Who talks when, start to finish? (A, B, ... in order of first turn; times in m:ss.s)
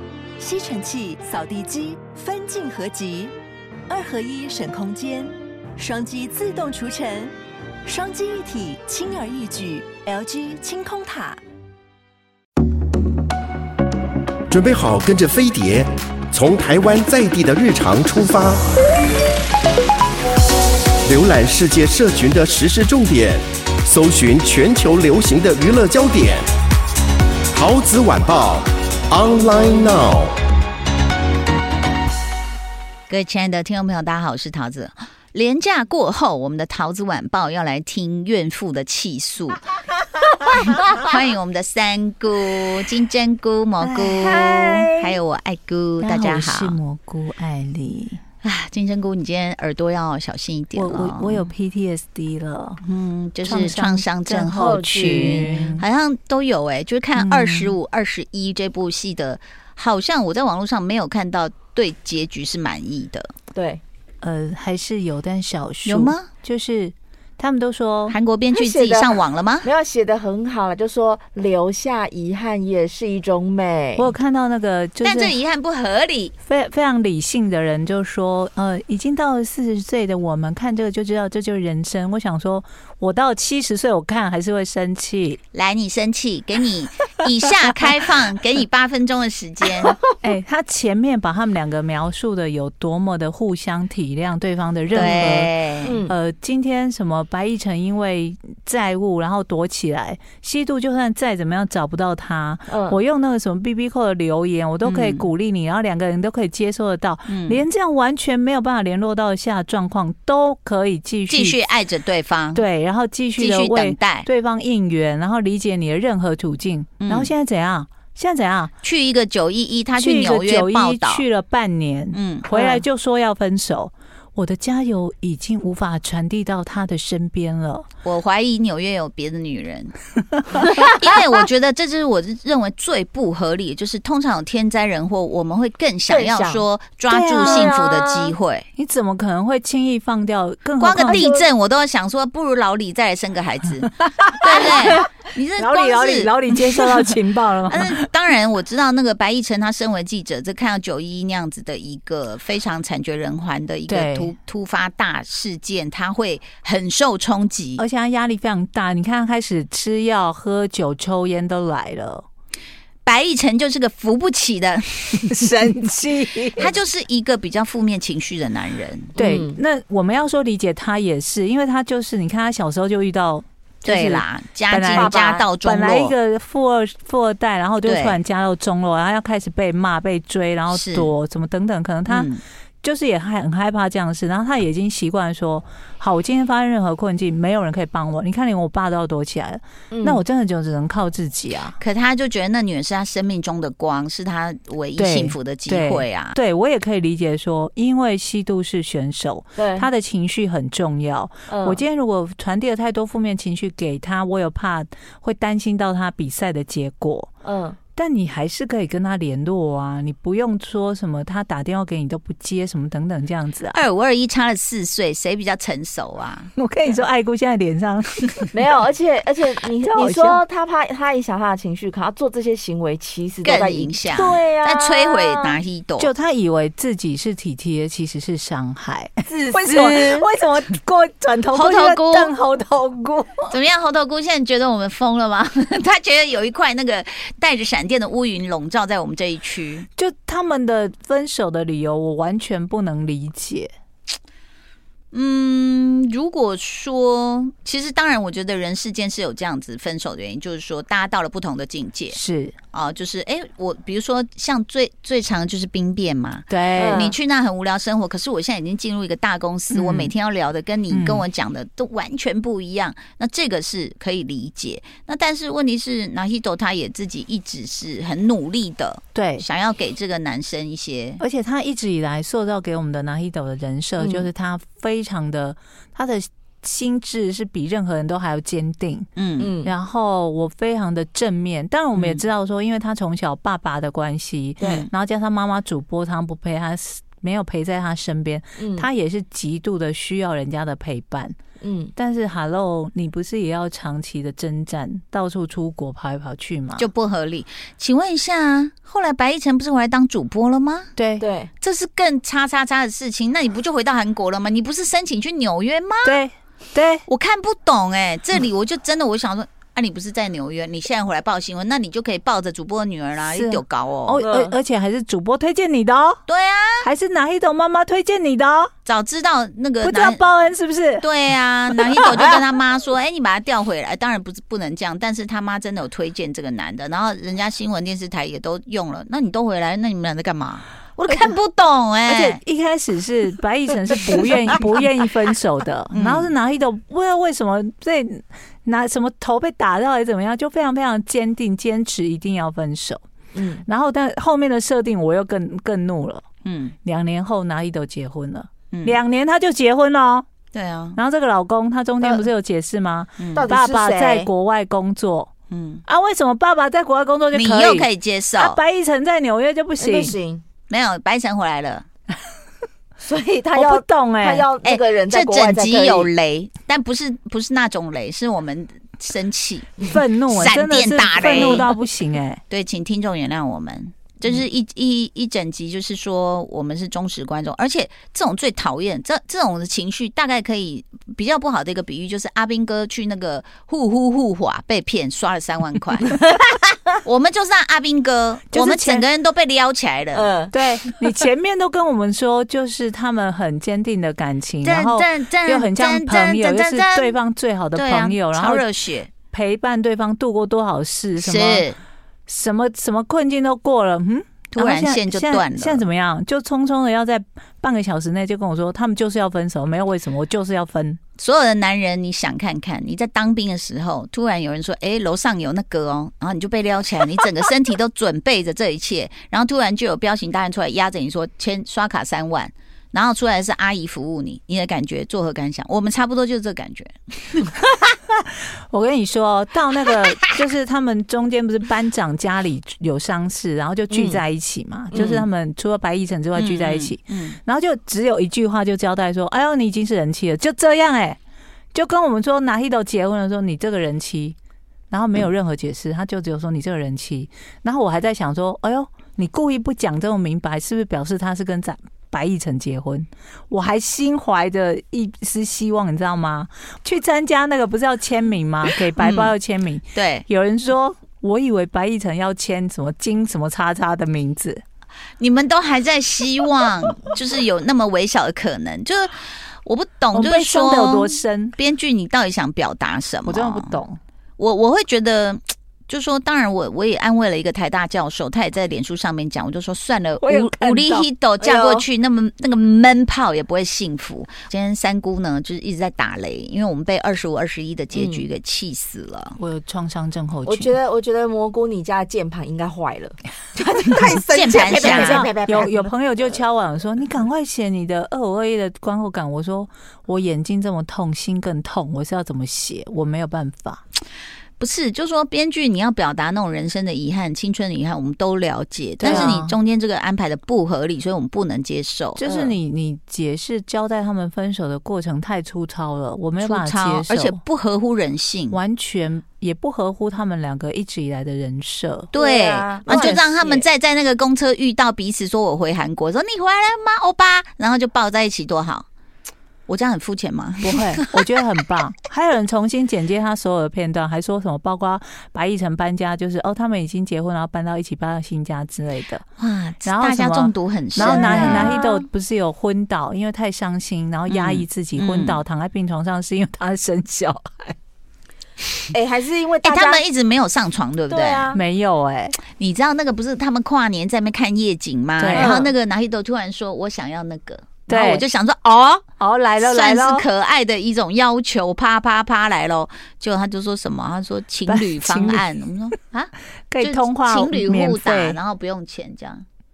0:00.4-0:03.3 A
0:03.9-0:07.3 A
0:07.9-0:11.4 A
0:14.5-0:18.7 B
0:21.1-0:26.4 B
0:27.5-0:30.3 B
0:33.1-0:39.6 C
0:40.8-0:46.8 C
0:43.8-0:44.9 D
0:44.2-0:45.2 E
0:46.0-0:48.2 D
0:48.4-0:51.5 C
0:50.7-0:52.8 D
0:52.8-1:03.3 C
0:53.4-0:55.8 D
0:54.6-0:55.8 E
0:57.2-0:57.8 D
1:03.5-1:03.8 E
1:04.2-1:08.2 D
1:05.8-1:06.3 C
1:08.1-1:09.7 C
1:08.5-1:14.1 E
1:14.0-1:15.3 D
1:15.0-1:16.3 C
1:16.4-1:25.4 D
1:25.5-1:30.0 C
1:30.2-1:35.5 D
1:34.9-1:36.0 C
1:35.0-1:35.3 E
1:35.8-1:36.1 E
1:36.0-1:51.6 D
1:42.7-1:43.0 E
1:44.8-1:45.3 C
1:47.3-1:47.6 C
1:51.3-1:52.6 C
1:52.5-1:58.7 D
1:53.4-1:54.3 C
1:57.0-1:57.3 C
1:58.8-2:01.2 C
2:00.0-2:07.9 D
2:02.1-2:02.7 C
2:08.0-2:09.9 C
2:10.8-2:18.7 C
2:16.1-2:16.6 E
2:17.1-2:17.8 D
2:17.4-2:18.3 E
2:18.8-2:21.2 D
2:20.8-2:27.0 C
2:21.0-2:21.5 E
2:24.4-2:25.0 D
2:25.6-2:28.0 D
2:27.7-2:37.8 C
2:33.9-2:34.3 D
2:37.8-2:42.2 D
2:43.0-2:45.4 C
2:45.2-2:46.7 D
2:46.6-2:49.2 C
2:49.2-2:49.6 E
2:49.2-3:11.8 D
2:53.8-2:56.2 C
2:54.9-2:55.4 E
2:57.8-2:58.2 C
3:00.7-3:01.1 C
3:02.1-3:02.4 C
3:09.9-3:10.2 E
3:11.8-3:16.4 C
3:15.0-3:27.3 D
3:19.6-3:19.9 E
3:21.5-3:21.8 E
3:27.4-3:27.8 E
3:28.0-3:33.8 D
3:33.7-3:36.5 C
3:36.6-3:38.5 D
3:38.5-3:45.6 E
3:39.8-3:40.4 D
3:43.4-3:46.1 C
3:46.0-3:53.5 D
3:49.2-3:50.3 E
3:51.5-3:52.3 C
3:53.5-3:59.9 C
4:00.0-4:03.7 D
4:05.1-4:12.2 C
4:12.1-4:12.6 D
4:12.7-4:31.2 C
4:16.5-4:17.0 D
4:16.8-4:17.2 E
4:19.7-4:20.1 D
4:20.9-4:21.3 D
4:29.1-4:29.4 D
4:31.2-4:39.1 D
4:39.2-4:39.5 C
4:39.4-4:39.7 E
4:39.6-4:51.3 D
4:42.0-4:42.2 C
4:44.6-4:44.8 E
4:44.6-4:44.9 C
4:48.6-4:48.9 E
4:51.6-4:51.9 E
4:52.0-4:56.8 D
4:56.8-5:00.9 C
5:01.0-5:01.2 D
5:01.2-5:01.5 E
5:01.6-5:06.2 C
5:06.0-5:07.0 D
5:07.1-5:14.2 C
5:13.3-5:16.2 D
5:14.2-5:14.5 E
5:16.3-5:16.9 C
5:16.8-5:18.7 D
5:18.8-5:20.3 C
5:19.8-5:21.1 D
5:21.0-5:32.4 C
5:32.0-5:43.0 D
5:35.9-5:36.3 C
5:43.3-5:43.6 E
5:43.6-5:46.2 D
5:46.4-5:46.7 C
5:46.8-5:50.2 D
5:48.7-5:49.0 C
5:50.5-5:51.0 C
5:51.0-5:55.3 D
5:52.0-5:52.3 E
5:53.2-5:53.5 C
5:53.3-5:54.3 E
5:55.5-5:55.8 C
5:55.9-6:00.1 D
5:57.3-5:58.6 C
5:59.8-6:00.4 E
6:00.7-6:01.8 C
6:03.0-6:06.1 E
6:03.5-6:04.5 D
6:04.6-6:11.7 C
6:09.8-6:12.4 D
6:11.3-6:11.6 E
6:12.5-6:26.2 C
6:27.0-6:30.3 C
6:28.5-6:29.0 D
6:30.1-6:30.5 E
6:30.5-6:38.6 D
6:34.6-6:37.2 C
6:37.7-6:39.1 C
6:39.3-6:41.7 D
6:41.2-6:41.8 C
6:42.3-6:51.0 D
6:44.5-6:45.8 C
6:51.2-7:07.5 C
7:08.7-7:21.2 D
7:13.9-7:14.2 E
7:16.3-7:17.4 C
7:21.7-7:24.4 D
7:24.9-7:44.6 D
7:39.9-7:40.2 C
7:45.2-7:53.8 C
7:50.1-7:51.6 D
7:53.2-7:54.0 D
7:54.4-8:09.4 C
8:00.2-8:01.1 D
8:01.4-8:01.8 E
8:07.9-8:08.2 E
8:09.4-8:10.7 D
8:10.4-8:15.9 E
8:14.3-8:15.3 C
8:14.6-8:23.8 D
8:24.6-8:32.2 C
8:29.0-8:29.6 D
8:29.0-8:29.4 E
8:32.2-8:37.4 D
8:32.2-8:32.6 E
8:36.4-8:38.6 C
8:38.5-8:42.1 D
8:42.1-8:48.9 C
8:42.1-8:43.7 E
8:42.9-8:43.2 D
8:49.7-8:51.2 C
8:50.6-8:59.2 D
8:59.4-9:01.8 C
8:59.8-9:07.8 D
9:01.0-9:02.0 E
9:04.3-9:05.4 C
9:08.9-9:10.0 E
9:09.6-9:11.5 C
9:11.1-9:11.6 E
9:11.5-9:12.4 D
9:12.5-9:19.0 C
9:15.2-9:15.6 D
9:15.3-9:15.7 E
9:17.9-9:18.3 D
9:19.2-9:20.3 D
9:19.6-9:29.4 C
9:24.7-9:25.4 D
9:26.7-9:28.4 D